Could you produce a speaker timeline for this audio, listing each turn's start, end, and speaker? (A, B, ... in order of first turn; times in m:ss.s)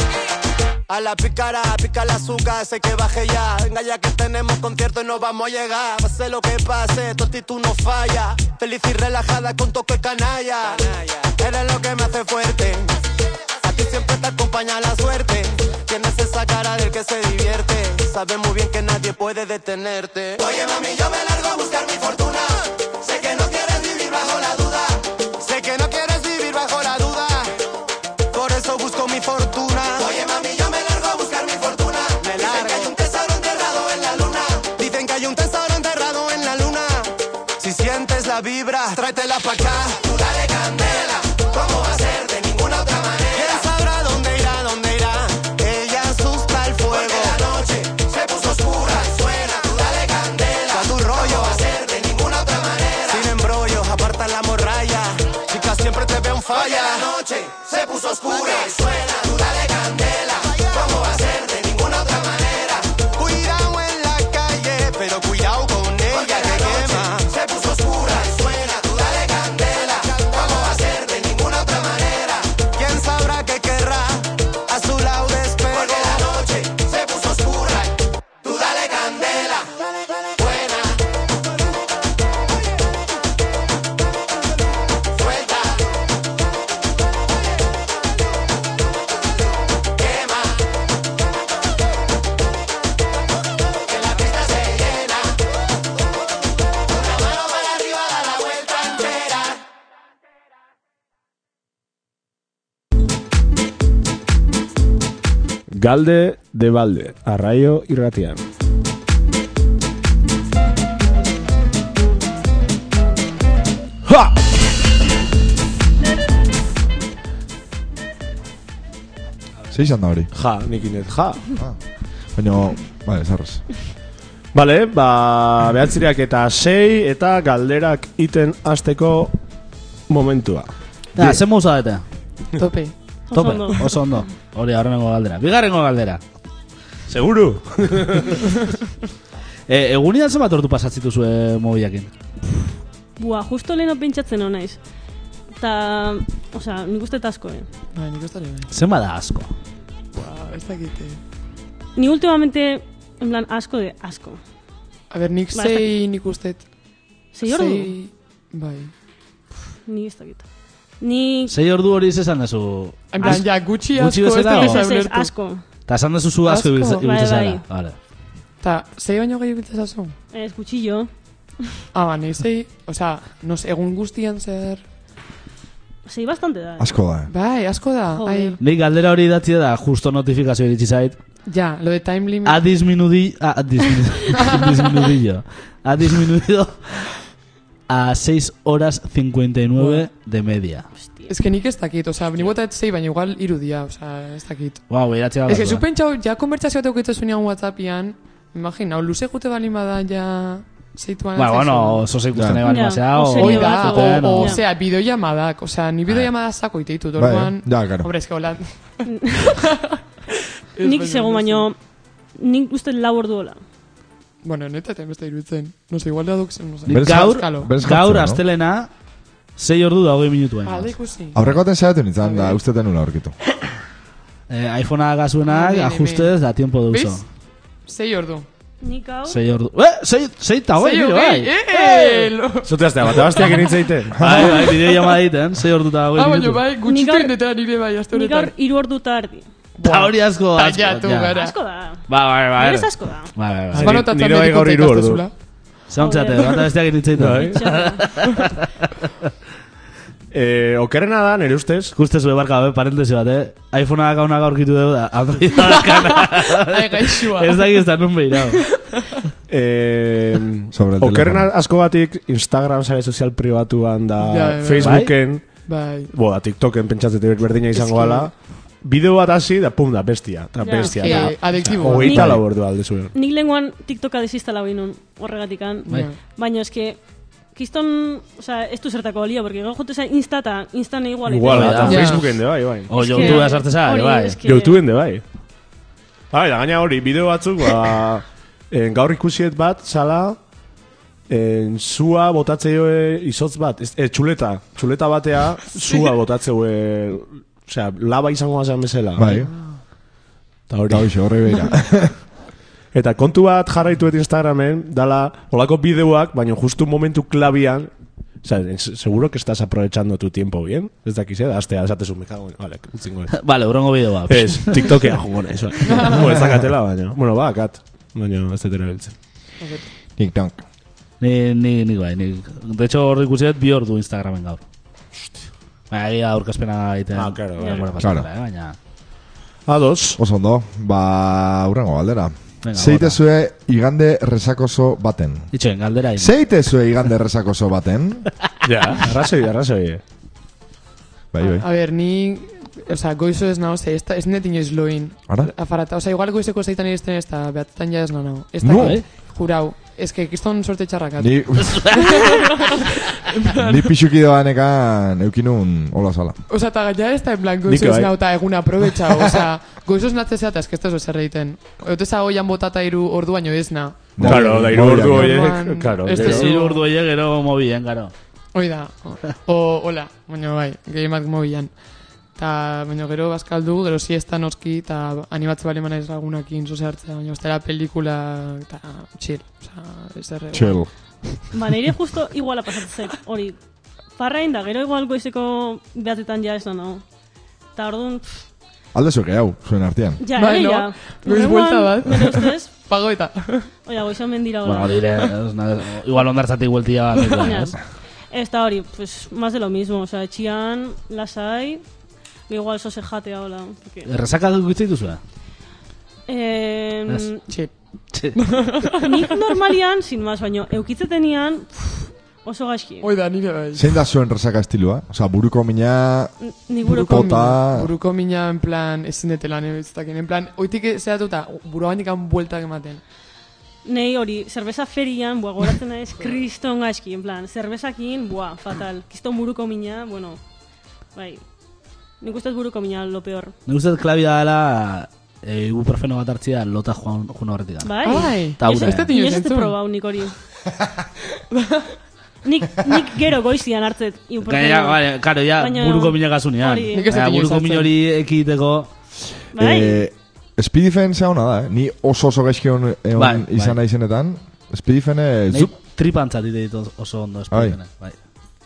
0:00.9-0:13.0 A
0:13.6-0:27.6 A
0:28.3-1:19.7 A
1:20.4-1:21.0 A
1:25.2-1:25.7 A
1:30.0-1:30.5 A
1:33.9-1:35.3 A
1:36.9-1:39.5 A
1:45.7-1:48.4 B
1:59.7-2:00.3 C
2:00.3-2:01.5 B
2:02.4-2:03.6 C
2:04.5-2:09.3 B
2:10.1-2:11.4 B
2:11.2-2:12.0 D
2:12.6-2:12.9 E
2:13.3-2:14.3 F
2:13.3-2:16.2 D
2:17.1-2:18.4 B
2:19.7-2:22.1 D
2:23.2-2:24.8 F
2:25.6-2:27.7 F
2:27.9-2:28.7 E
2:28.7-2:29.5 D
2:30.1-2:31.2 E
2:32.0-2:34.4 F
2:35.1-2:36.7 E
2:35.5-2:35.9 F
2:37.3-2:37.9 F
2:37.4-2:38.9 E
2:39.8-2:40.4 F
2:41.0-2:41.5 F
2:41.5-2:44.8 D
2:43.1-2:45.3 E
2:44.5-2:45.6 F
2:45.9-2:48.0 D
2:46.4-2:47.0 E
2:47.0-2:47.6 F
2:48.6-2:50.2 E
2:50.3-2:51.1 F
2:51.9-2:54.8 E
2:56.1-2:56.9 F
2:56.8-2:57.3 C
2:57.3-2:58.6 E
2:58.1-2:58.6 F
2:58.6-3:01.2 D
3:01.5-3:02.6 E
3:02.4-3:07.1 D
3:04.4-3:04.8 E
3:07.9-3:10.9 D
3:09.8-3:10.1 E
3:11.0-3:11.4 F
3:11.3-3:14.9 E
3:14.9-3:15.8 D
3:15.4-3:22.1 E
3:21.4-3:24.6 D
3:22.4-3:22.6 C
3:22.6-3:24.6 F
3:23.3-3:30.0 E
3:27.2-3:28.1 C
3:29.1-3:29.6 F
3:30.7-3:31.7 E
3:30.8-3:31.8 F
3:32.4-3:33.6 F
3:34.4-3:37.7 E
3:36.9-3:38.9 D
3:36.9-3:38.4 C
3:39.6-3:40.9 D
3:40.6-3:41.6 E
3:41.3-3:43.3 C
3:42.2-3:42.6 E
3:44.5-3:47.2 D
3:45.4-3:46.4 E
3:46.9-3:47.2 E
3:47.9-3:48.5 E
3:48.8-3:49.4 F
3:49.3-3:51.5 D
3:50.8-3:55.1 E
3:51.7-3:52.3 F
3:52.6-3:54.2 B
3:54.2-3:56.6 D
3:54.2-3:54.5 C
3:56.1-3:58.5 E
3:56.9-3:57.4 F
3:58.1-3:59.5 F
3:59.8-4:01.6 E
3:59.8-4:01.4 D
4:01.3-4:03.3 F
4:02.1-4:04.0 D
4:03.7-4:05.2 B
4:03.8-4:05.3 E
4:05.9-4:09.0 D
4:06.0-4:06.8 F
4:07.2-4:07.7 B
4:07.4-4:08.3 F
4:10.3-4:11.9 B
4:12.0-4:18.7 D
4:15.6-4:17.8 E
4:19.5-4:25.6 B
4:20.7-4:21.5 C
4:24.2-4:26.1 E
4:24.8-4:25.1 D
4:26.1-4:33.1 B
4:27.7-4:28.3 E
4:30.6-4:37.0 F
4:30.8-4:32.3 E
4:35.9-4:36.2 E
4:37.5-4:42.2 F
4:41.3-4:43.4 B
4:41.5-4:42.2 D
4:41.9-4:42.3 E
4:42.9-4:44.4 D
4:42.9-4:44.8 F
4:44.4-4:45.2 B
4:46.3-4:50.4 B
4:51.3-4:59.4 B
4:59.2-4:59.5 C
4:59.3-4:59.8 E
5:00.7-5:01.2 B
5:00.9-5:02.2 C
5:02.9-5:07.9 B
5:08.4-5:19.1 B
5:13.3-5:14.9 D
5:15.9-5:16.2 E
5:19.6-5:19.9 E
5:20.2-5:20.6 C
5:21.2-5:24.6 D
5:25.9-5:28.8 D
5:27.1-5:27.9 B
5:27.6-5:27.8 F
5:28.0-5:28.3 C
5:29.6-5:30.2 B
5:30.2-5:35.5 C
5:32.6-5:33.2 D
5:35.5-5:36.3 D
5:36.2-5:38.3 C
5:38.6-5:40.0 B
5:41.3-5:41.6 C
5:41.4-5:53.9 E
5:48.6-5:49.0 C
5:48.7-5:49.0 D
5:51.2-5:51.9 C
5:51.7-5:52.1 D
5:53.5-5:56.4 C
5:56.5-6:06.8 E
5:57.7-5:58.2 B
6:04.2-6:05.6 C
6:04.2-6:06.5 B
6:06.1-6:08.1 D
6:08.5-6:11.7 E
6:12.4-6:20.8 E
6:20.5-6:20.9 C
6:21.5-6:23.6 F
6:24.2-6:27.0 F
6:27.7-6:28.4 F
6:28.9-6:30.2 C
6:30.2-6:32.7 F
6:30.4-6:33.7 E
6:33.8-6:35.0 F
6:34.6-6:37.7 D
6:37.4-6:37.8 F
6:38.3-6:41.8 F
6:42.5-6:44.1 F
6:44.1-6:45.2 D
6:46.3-6:47.4 F
6:48.1-6:48.4 D
6:48.3-6:49.4 E
6:49.0-6:53.1 F
6:53.0-6:53.9 E
6:53.8-6:56.3 C
6:56.4-6:57.3 F
6:56.8-7:03.0 E
6:56.9-6:57.9 C
7:03.8-7:10.4 F
7:11.1-7:11.4 F
7:12.2-7:13.6 F
7:13.7-7:19.1 D
7:17.8-7:20.4 F
7:18.0-7:19.7 E
7:21.5-7:21.9 E
7:22.4-7:27.1 F
7:24.4-7:28.9 D
7:26.9-7:27.9 E
7:29.5-7:30.1 F
7:29.5-7:35.7 C
7:33.2-7:33.8 D
7:35.5-7:38.2 D
7:37.5-7:37.8 C